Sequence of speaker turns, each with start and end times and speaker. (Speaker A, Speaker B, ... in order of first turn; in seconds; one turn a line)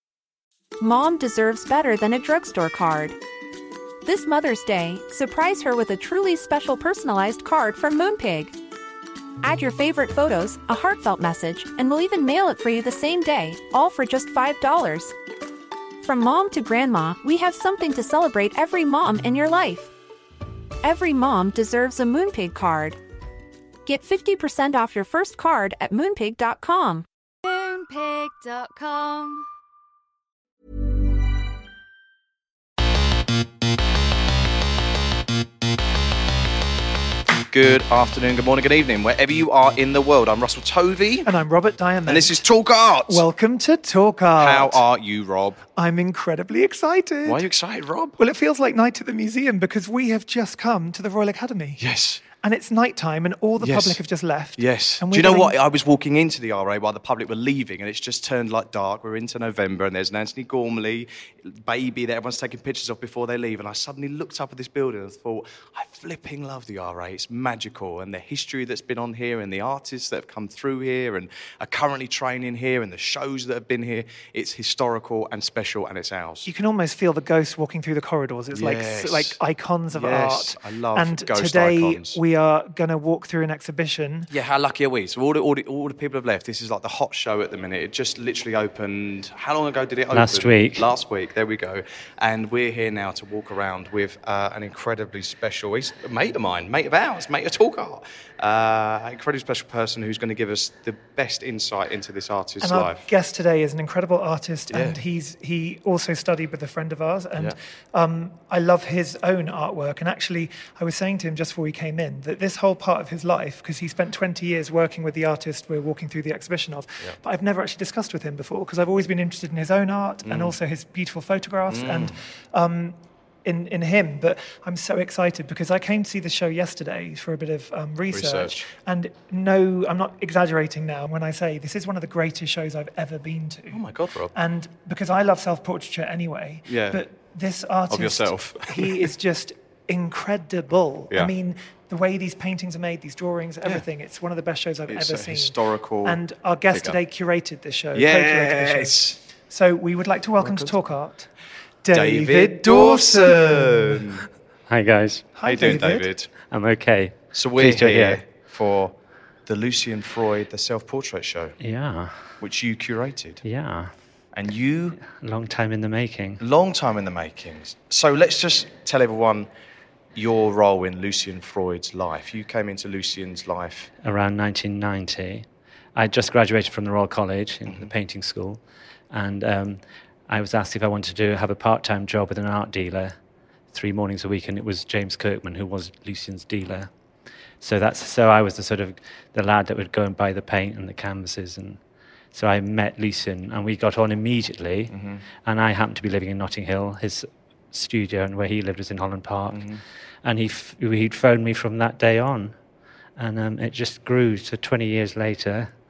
Speaker A: 0.8-3.2
Speaker A: 4.0-8.6
Speaker A: 9.4-15.2
Speaker A: 16.0-19.9
Speaker A: 20.8-23.0
Speaker A: 23.9-27.1
Speaker B: 27.4-29.4
Speaker C: 37.5-41.3
Speaker D: 41.2-42.4
Speaker C: 42.0-43.3
Speaker D: 43.1-44.8
Speaker C: 44.4-45.6
Speaker D: 45.8-47.4
Speaker C: 47.2-48.2
Speaker D: 48.2-55.5
Speaker C: 51.8-52.2
Speaker C: 53.6-54.0
Speaker C: 54.6-76.5
Speaker D: 76.5-84.3
Speaker C: 78.5-82.2
Speaker C: 84.3-103.1
Speaker E: 90.1-90.8
Speaker D: 102.6-133.8
Speaker C: 104.7-105.0
Speaker C: 120.2-120.6
Speaker C: 121.7-122.2
Speaker C: 128.1-128.7
Speaker C: 133.7-134.3
Speaker D: 134.3-151.3
Speaker C: 136.7-137.0
Speaker C: 137.9-139.1
Speaker C: 144.9-147.0
Speaker C: 147.9-149.2
Speaker C: 150.4-150.8
Speaker D: 151.8-154.0
Speaker C: 151.9-154.3
Speaker E: 154.7-155.3
Speaker D: 155.4-156.1
Speaker C: 155.4-156.3
Speaker E: 156.5-158.2
Speaker C: 157.3-158.9
Speaker C: 159.5-161.6
Speaker E: 161.6-162.1
Speaker C: 162.4-163.4
Speaker E: 163.4-163.9
Speaker C: 164.3-165.0
Speaker E: 165.0-166.4
Speaker C: 166.4-169.5
Speaker C: 170.2-173.9
Speaker E: 174.0-183.2
Speaker E: 183.7-186.9
Speaker E: 187.6-191.8
Speaker E: 192.3-194.9
Speaker C: 194.9-195.2
Speaker E: 195.4-199.6
Speaker C: 199.5-199.8
Speaker E: 200.2-202.6
Speaker E: 203.2-205.7